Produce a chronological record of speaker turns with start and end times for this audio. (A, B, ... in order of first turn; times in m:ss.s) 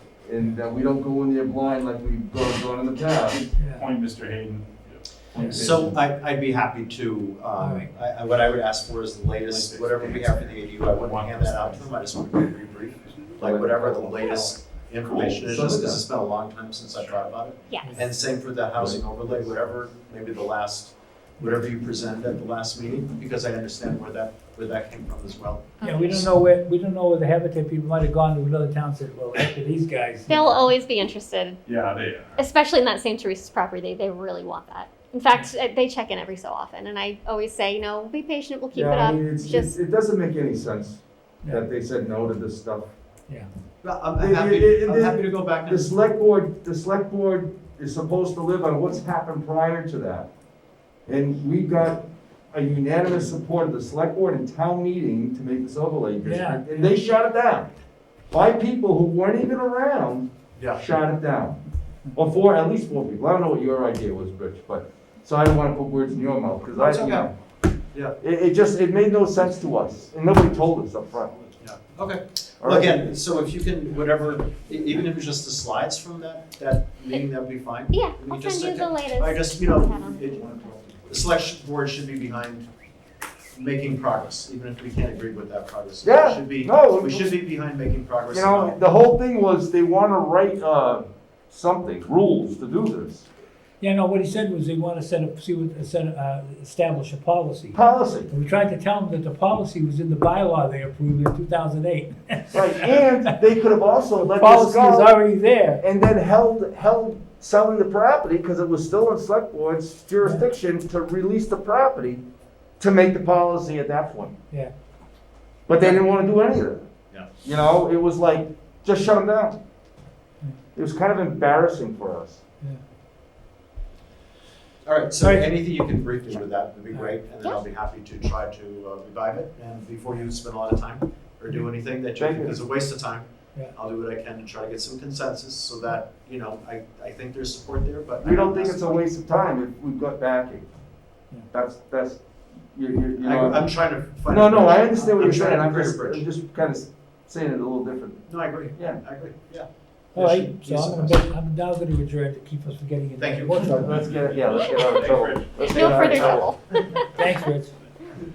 0:00.2-0:03.4 A
0:03.2-0:05.0 B
0:03.6-0:03.9 C
0:05.3-0:06.0 A
0:05.5-0:26.3 D
0:07.6-0:07.9 C
0:09.4-0:11.9 B
0:13.0-0:13.6 B
0:13.4-0:14.4 A
0:15.0-0:15.5 B
0:15.3-0:16.0 A
0:16.9-0:17.3 B
0:17.7-0:18.0 E
0:18.7-0:19.6 A
0:25.8-0:26.2 E
0:25.8-0:30.4 C
0:30.3-0:31.6 E
0:31.6-0:32.4 B
0:32.4-0:39.8 E
0:38.7-0:42.9 A
0:43.8-0:46.0 D
0:44.2-0:50.3 A
0:51.1-0:57.7 A
0:56.2-0:56.6 C
0:58.3-1:01.6 A
1:00.6-1:00.8 D
1:02.2-1:07.4 A
1:06.8-1:07.3 D
1:08.2-1:11.3 A
1:09.5-1:11.6 B
1:11.6-1:22.7 D
1:12.6-1:13.2 A
1:14.1-1:15.1 B
1:17.9-1:20.9 E
1:23.5-1:28.8 D
1:26.0-1:27.4 A
1:28.3-1:33.3 A
1:33.8-1:43.3 C
1:37.8-1:38.3 A
1:42.5-1:45.2 A
1:44.2-1:45.8 C
1:45.8-1:52.2 A
1:52.8-1:54.3 A
1:55.7-1:56.9 A
1:57.4-1:59.6 A
2:00.8-2:02.4 A
2:04.8-2:19.1 D
2:05.2-2:05.5 C
2:12.2-2:12.6 A
2:18.2-2:20.7 A
2:21.5-2:23.7 A
2:23.2-2:26.3 D
2:24.2-2:29.0 A
2:28.3-2:31.2 D
2:30.1-2:34.1 C
2:33.2-2:34.0 D
2:33.8-2:36.5 A
2:33.9-2:36.5 B
2:35.7-2:37.0 E
2:36.9-2:37.7 C
2:37.2-2:37.9 B